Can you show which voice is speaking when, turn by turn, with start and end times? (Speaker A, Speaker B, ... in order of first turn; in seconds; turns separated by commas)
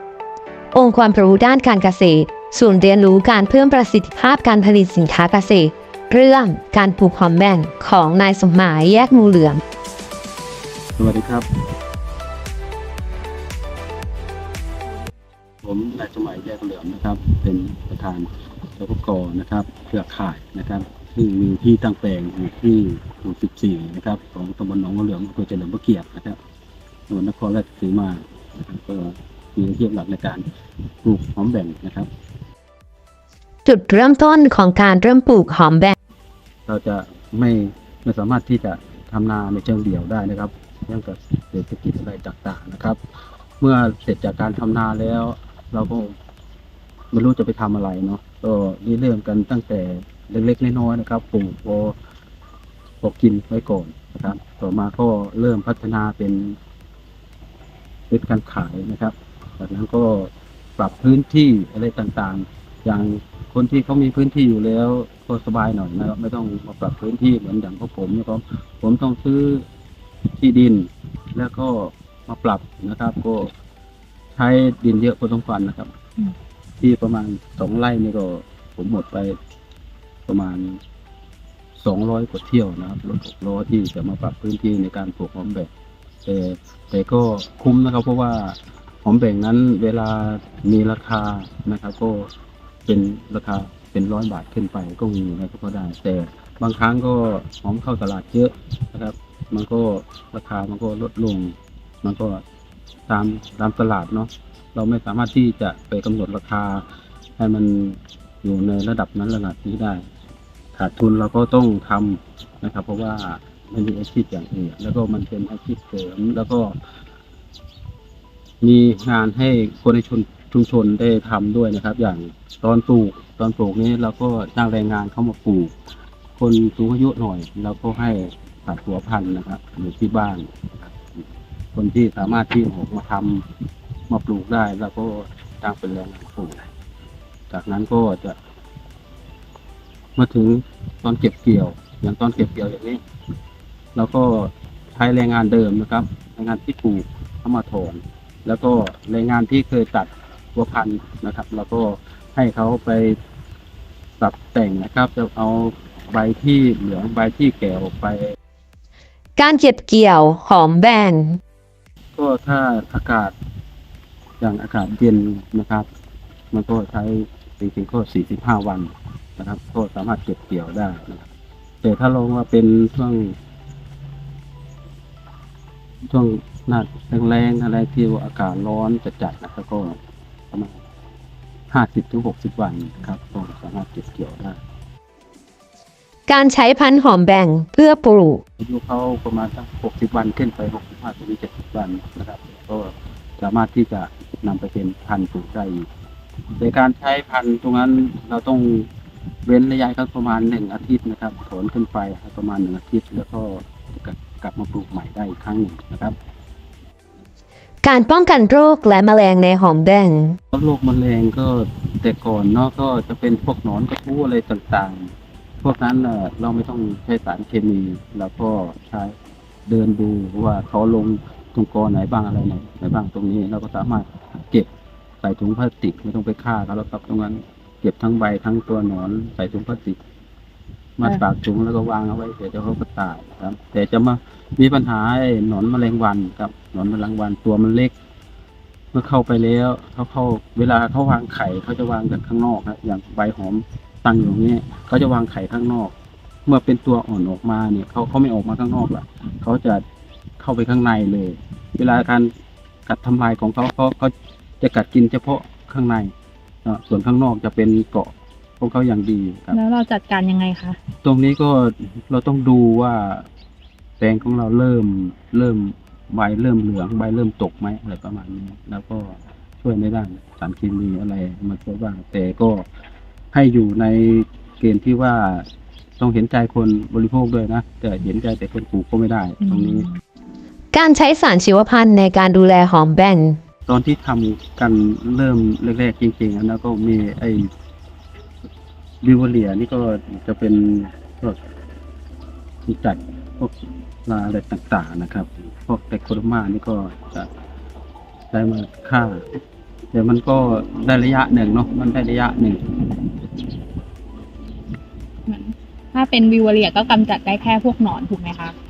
Speaker A: 0.7-9.6, Speaker B: 11.0-11.5, Speaker B: 15.6-26.4, Speaker B: 27.1-30.4, Speaker B: 31.0-32.1, Speaker A: 33.6-36.0, Speaker B: 36.7-43.0, Speaker B: 43.6-46.1, Speaker B: 47.1-52.0, Speaker B: 53.0-56.6, Speaker B: 58.1-69.7, Speaker B: 70.4-73.5, Speaker B: 74.3-75.9, Speaker B: 76.8-79.4, Speaker B: 80.3-80.8, Speaker B: 81.8-85.7, Speaker B: 86.2-92.3, Speaker B: 92.9-102.4, Speaker B: 103.1-106.8, Speaker B: 107.4-110.0, Speaker B: 110.8-116.8, Speaker B: 118.6-125.7, Speaker B: 126.4-133.5, Speaker B: 134.1-136.7, Speaker B: 137.5-138.4, Speaker B: 140.2-143.0, Speaker B: 143.9-153.2, Speaker B: 154.2-158.3, Speaker A: 159.4-161.4, Speaker B: 162.2-163.3, Speaker B: 164.4-165.9, Speaker B: 166.5-171.3, Speaker B: 171.8-173.4, Speaker B: 176.1-180.0, Speaker B: 181.7-184.6, Speaker A: 186.3-188.4, Speaker B: 188.6-195.9, Speaker B: 196.6-198.9, Speaker B: 199.4-206.2, Speaker A: 207.8-210.4, Speaker B: 210.5-219.1, Speaker B: 219.7-224.7, Speaker B: 225.2-230.0, Speaker B: 231.0-237.9, Speaker B: 238.9-245.9, Speaker B: 246.5-249.8, Speaker B: 250.4-252.3, Speaker B: 252.9-256.1, Speaker B: 256.6-259.6, Speaker C: 259.5-260.8, Speaker B: 261.0-263.3, Speaker B: 264.0-272.7, Speaker B: 273.3-275.5, Speaker B: 276.0-279.9, Speaker C: 279.4-280.0, Speaker A: 280.7-283.4, Speaker B: 283.7-287.5, Speaker B: 289.0-291.4, Speaker B: 292.6-297.3, Speaker B: 298.3-299.2, Speaker B: 299.9-302.6, Speaker C: 305.3-308.6